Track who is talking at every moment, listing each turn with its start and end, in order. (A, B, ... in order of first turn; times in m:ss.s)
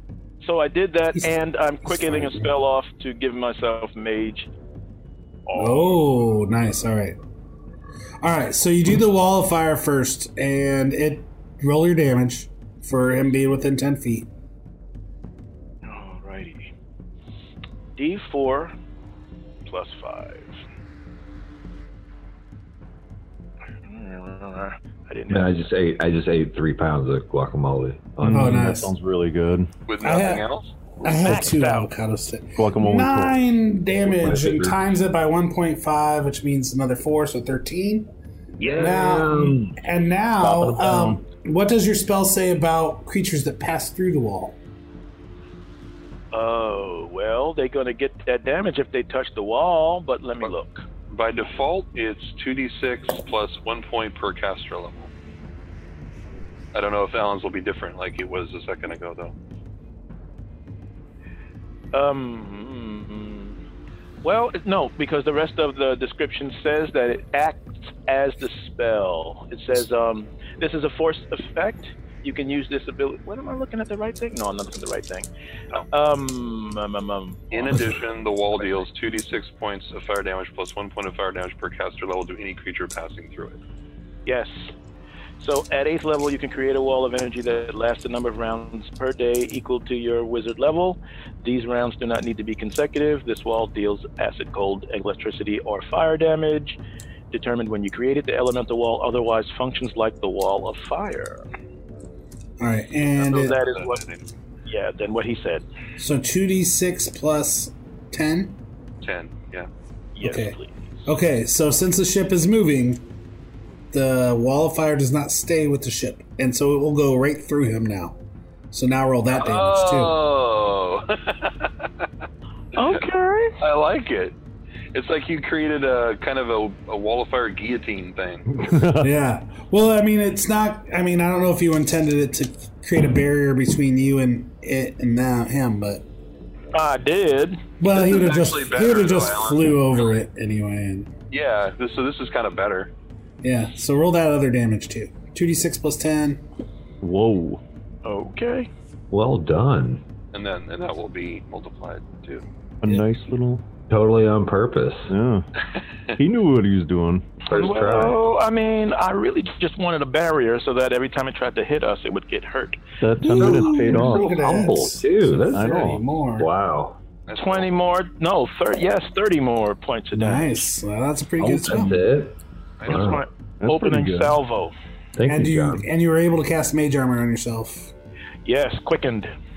0:00.4-0:04.5 A
0:01.9-0:02.5 B
0:05.5-0:06.0 A
0:05.6-0:07.2 B
0:08.2-0:14.3 B
0:15.8-0:16.7 A
0:18.0-0:18.7 A
0:19.6-0:20.5 A
0:23.8-0:25.7 A
0:25.3-0:28.7 C
0:28.2-0:29.7 D
0:28.3-0:28.9 B
0:29.9-0:30.7 E
0:30.0-0:30.4 B
0:31.0-0:38.1 B
0:31.0-0:31.9 A
0:32.6-0:33.4 D
0:34.1-0:34.8 C
0:38.6-0:39.8 C
0:38.7-0:44.6 B
0:40.4-0:41.2 D
0:46.3-0:50.8 A
0:51.1-0:55.1 E
0:56.7-0:59.3 E
1:01.9-1:03.6 A
1:04.2-1:15.3 A
1:15.9-1:17.8 A
1:17.5-1:23.6 E
1:24.2-1:24.7 A
1:25.4-1:36.8 A
1:37.3-1:41.4 A
1:42.6-1:43.6 B
1:43.2-1:44.0 A
1:43.4-1:44.2 E
1:44.7-1:45.6 A
1:46.0-1:48.6 B
1:49.0-1:49.7 E
1:50.2-1:50.8 A
1:50.2-1:53.0 B
1:53.9-1:58.2 B
1:58.7-2:00.2 B
1:59.3-2:01.7 E
2:02.7-2:03.6 A
2:03.6-2:04.4 E
2:04.9-2:08.5 E
2:08.5-2:09.1 D
2:09.0-2:16.0 B
2:16.7-2:17.6 A
2:17.8-2:21.1 B
2:17.9-2:19.8 E
2:21.3-2:22.9 E
2:23.4-2:26.4 B
2:27.0-2:27.6 D
2:28.0-2:28.7 A
2:29.1-2:30.0 C
2:30.3-2:32.4 E
2:32.8-2:33.6 D
2:33.9-2:35.1 C
2:35.1-2:35.4 D
2:36.2-2:37.3 D
2:37.5-2:38.2 C
2:37.5-2:42.8 A
2:43.0-2:44.3 D
2:43.2-2:46.5 B
2:43.3-2:45.8 C
2:45.5-2:46.0 D
2:46.4-2:47.0 C
2:47.3-2:47.7 E
2:47.3-2:50.7 A
2:50.1-2:52.0 B
2:51.4-2:53.2 C
2:52.8-2:53.2 E
2:52.9-2:54.7 A
2:53.6-2:54.4 D
2:55.2-2:55.8 C
2:55.3-2:57.9 B
2:58.4-2:59.3 A